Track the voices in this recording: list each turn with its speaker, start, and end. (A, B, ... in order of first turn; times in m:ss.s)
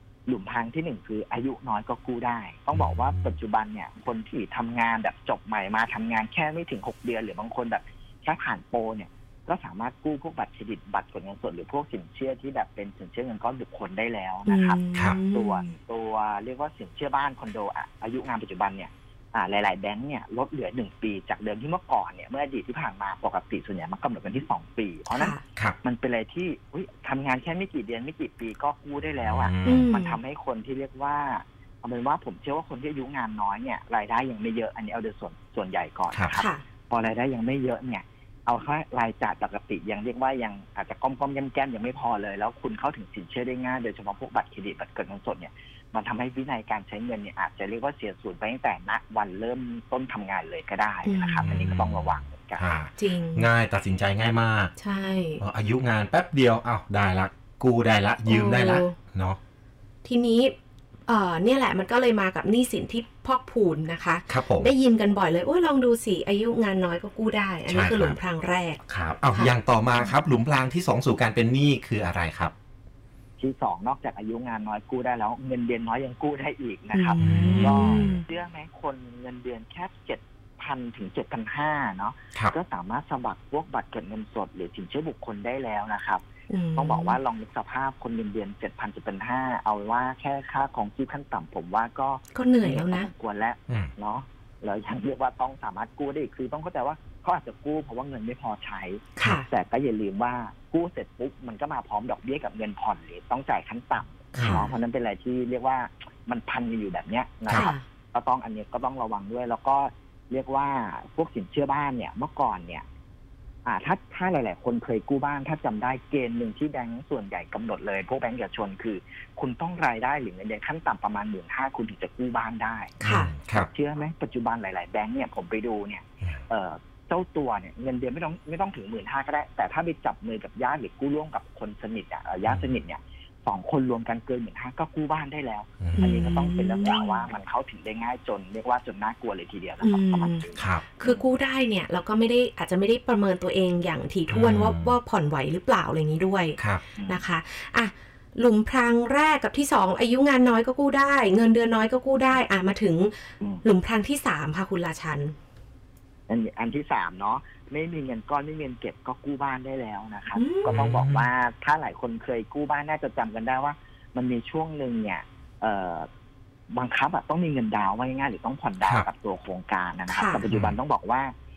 0:00.3-0:52.8 A
0:02.7-0:03.4 B
0:14.5-0:15.7 C
0:25.1-0:25.4 C
0:29.2-0:29.9 B
0:29.6-0:30.2 C
0:36.3-0:36.6 C
0:51.0-0:51.5 C
0:51.5-0:54.7 B
0:53.0-0:53.5 C
0:54.8-0:55.4 C
0:55.4-0:59.4 B
0:58.3-0:59.0 C
1:00.0-1:00.6 C
1:01.1-1:10.1 C
1:04.3-1:04.7 B
1:07.7-1:08.2 B
1:08.9-1:12.5 B
1:13.4-1:26.2 A
1:16.9-1:18.2 C
1:17.2-1:18.2 B
1:26.5-1:27.2 C
1:26.8-1:52.8 A
1:32.3-1:33.1 C
1:39.2-1:39.4 C
1:44.4-1:44.6 B
1:44.4-1:44.8 C
1:47.5-1:47.8 C
1:53.6-2:03.0 A
2:03.0-2:03.3 C
2:03.0-2:03.7 B
2:03.5-2:21.2 A
2:12.5-2:12.7 B
2:15.8-2:16.2 B
2:16.0-2:17.3 C
2:19.8-2:20.4 C
2:20.6-2:20.9 B
2:21.0-2:35.4 C
2:24.3-2:25.0 B
2:26.6-2:26.9 B
2:27.0-2:27.2 A
2:36.3-2:46.1 A
2:40.4-2:40.8 C
2:40.7-2:41.3 B
2:46.7-2:51.3 A
2:48.8-2:49.1 B
2:50.1-2:50.4 C
2:50.5-2:50.8 B